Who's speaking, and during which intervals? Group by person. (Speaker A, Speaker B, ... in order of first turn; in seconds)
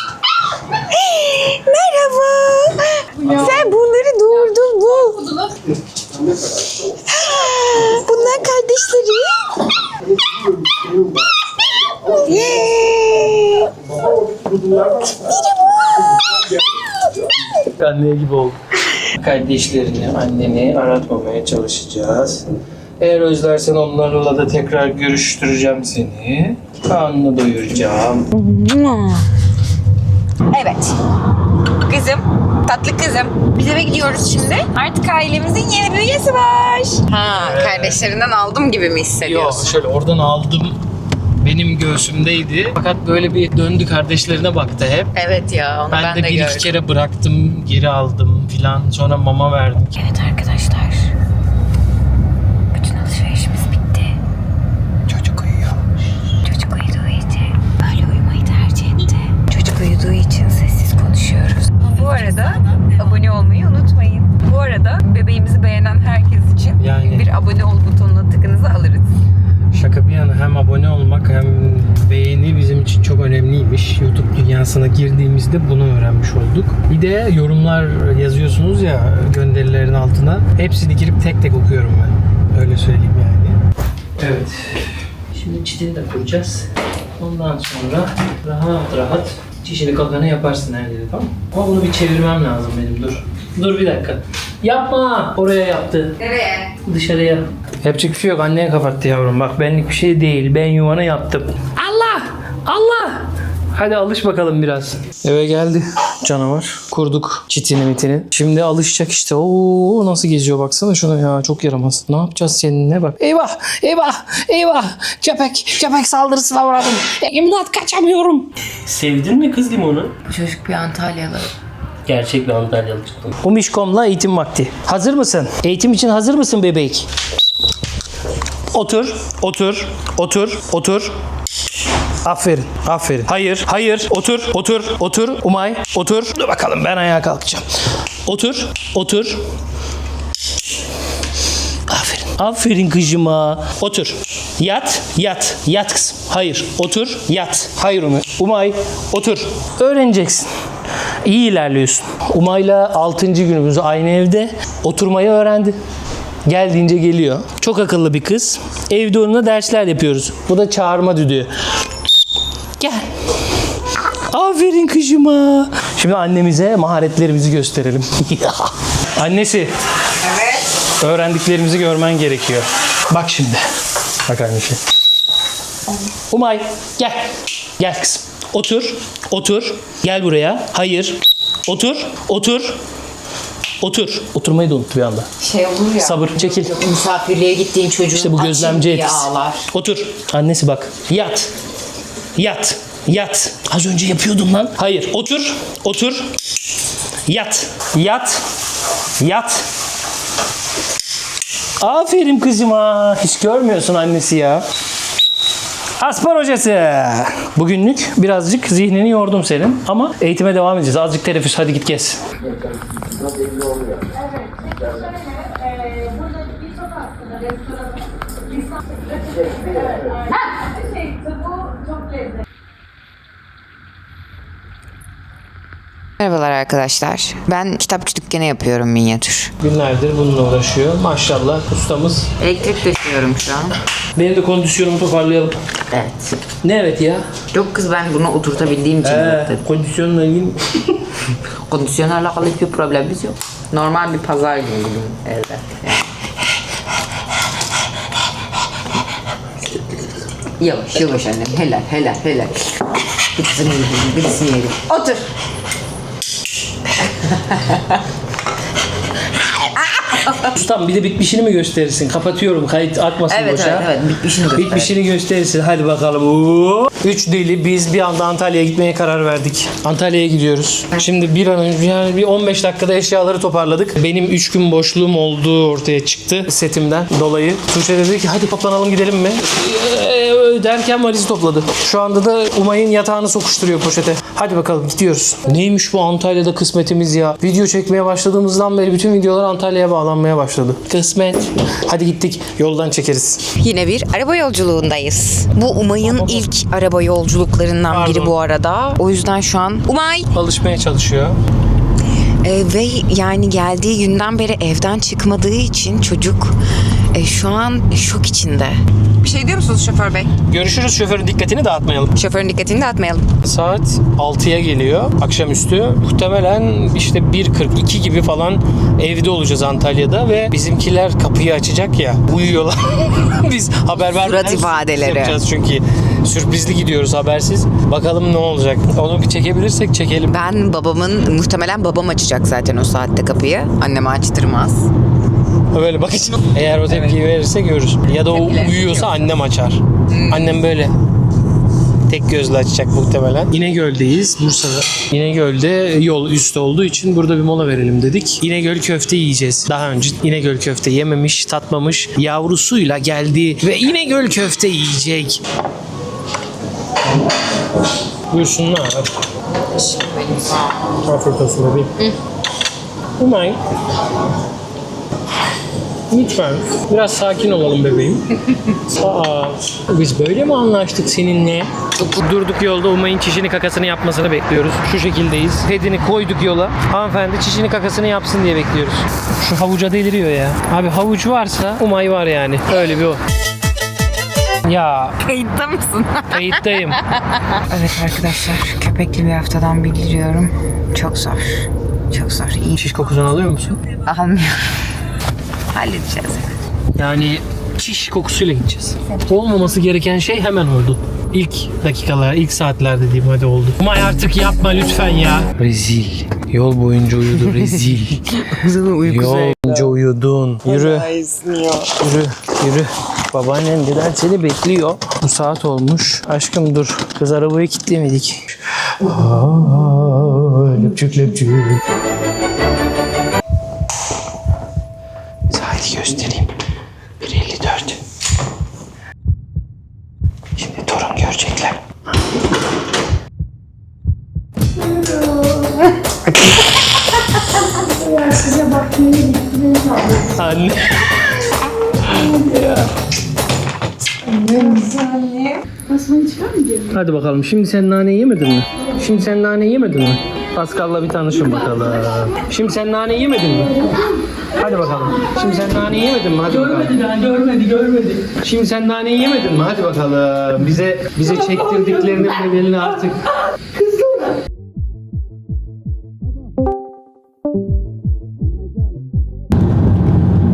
Speaker A: 0.7-5.5, 6.8-9.6, 11.8-16.9, 28.3-29.3, 30.5-30.9, 31.8-39.8, 45.1-46.8, 50.0-51.1, 52.7-54.1, 56.4-69.1, 96.2-96.8, 120.3-121.5, 170.2-170.7, 185.4-189.7, 226.2-229.5, 232.4-233.8, 235.9-236.4, 237.5-239.7, 241.7-246.2, 250.6-255.3, 257.0-258.0, 259.4-260.6, 263.3-264.9, 293.6-300.3, 302.4-306.6, 307.1-310.3, 312.1-313.3, 324.1-325.4, 330.3-334.9, 338.1-339.3, 340.1-340.5, 359.7-361.0, 385.2-392.9, 394.0-394.6, 395.7-396.6, 407.4-409.9, 410.7-412.0, 435.1-435.8, 438.2-440.1, 444.3-446.7
Speaker B: 17.7-22.5, 23.0-28.3, 37.3-38.0, 39.2-40.8, 41.4-45.1, 45.9-50.0, 55.1-55.9, 66.8-67.3, 69.7-83.6, 84.2-96.2, 96.8-120.1, 122.1-127.1, 128.7-131.1, 132.2-139.4, 141.9-150.5, 151.2-155.8, 156.5-161.5, 162.8-163.1, 164.3-169.7, 171.0-173.6, 174.3-174.8, 176.3-182.8, 183.8-185.3, 186.0-186.8, 188.1-191.5, 192.4-196.3, 197.3-198.4, 199.2-199.7, 201.8-204.6, 206.0-212.2, 229.6-232.3, 234.2-235.6, 236.6-237.3, 239.0-241.1, 260.6-263.9, 264.5-293.4, 296.0-296.5, 297.9-298.4, 300.3-301.4, 310.5-312.1, 313.4-330.4, 335.7-340.9, 342.1-355.4, 358.3-359.1, 361.0-361.9, 363.2-363.6, 366.1-383.2, 384.6-385.2, 386.3-387.0, 392.8-393.9, 397.0-408.3, 409.0-411.1, 411.9-421.8, 425.5-426.5, 427.2-428.0, 430.6-431.8, 440.1-442.9, 446.8-454.0, 454.5-463.2